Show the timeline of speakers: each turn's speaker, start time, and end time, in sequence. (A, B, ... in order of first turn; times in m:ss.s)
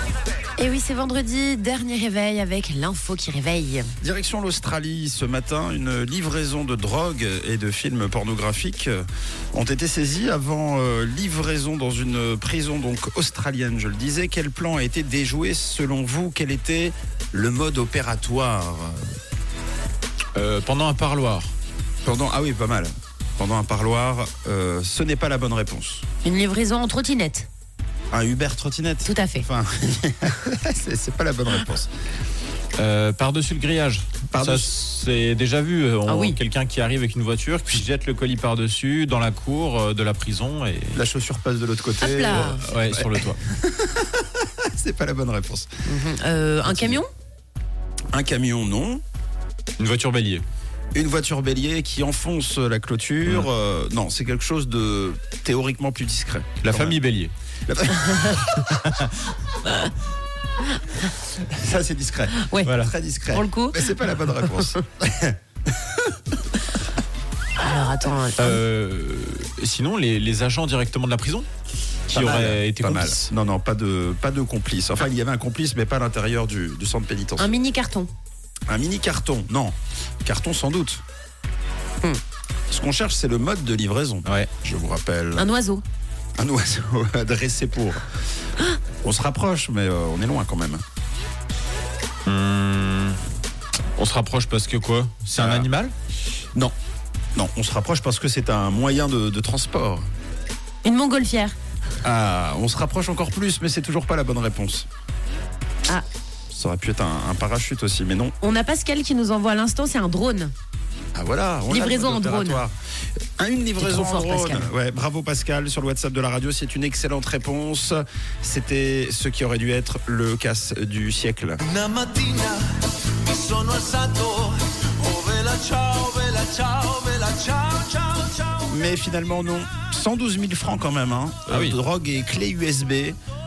0:00.6-0:03.9 A
0:04.0-0:19.1 B
0:20.4-0:21.5 C
0:22.0-0:26.0 B
0:26.2-0:27.5 A
0:28.1-0:31.9 B
0:29.0-0:29.5 A
0:32.8-0:41.0 C
0:34.3-0:34.7 B
0:36.1-0:36.4 A
0:40.9-0:45.7 B
0:42.0-0:42.6 A
0:42.3-0:43.4 C
0:45.9-0:47.1 A
0:46.6-0:47.0 B
0:48.1-0:49.0 B
0:49.8-0:50.4 C
0:50.9-0:57.0 B
0:56.6-0:57.3 C
0:57.7-0:58.8 B
0:58.2-0:59.1 C
1:01.2-1:06.5 B
1:02.3-1:02.7 A
1:02.6-1:02.9 C
1:03.3-1:03.9 A
1:07.6-1:08.6 A
1:08.4-1:11.5 C
1:12.1-1:13.3 C
1:12.1-1:17.5 B
1:17.4-1:18.1 A
1:18.7-1:21.0 B
1:22.7-1:25.5 B
1:25.4-1:25.8 A
1:26.4-1:28.1 B
1:29.0-1:30.8 B
1:32.3-1:33.2 C
1:34.0-1:35.9 C
1:35.4-1:35.7 B
1:37.4-1:40.1 B
1:40.8-1:41.6 A
1:42.0-1:44.9 B
1:46.5-1:48.3 B
1:48.4-1:50.5 A
1:51.2-1:52.8 B
1:51.7-1:52.6 A
1:53.4-2:01.6 B
1:53.8-1:54.7 A
2:01.6-2:02.6 D
2:03.2-2:08.6 D
2:08.7-2:13.2 B
2:11.5-2:11.8 C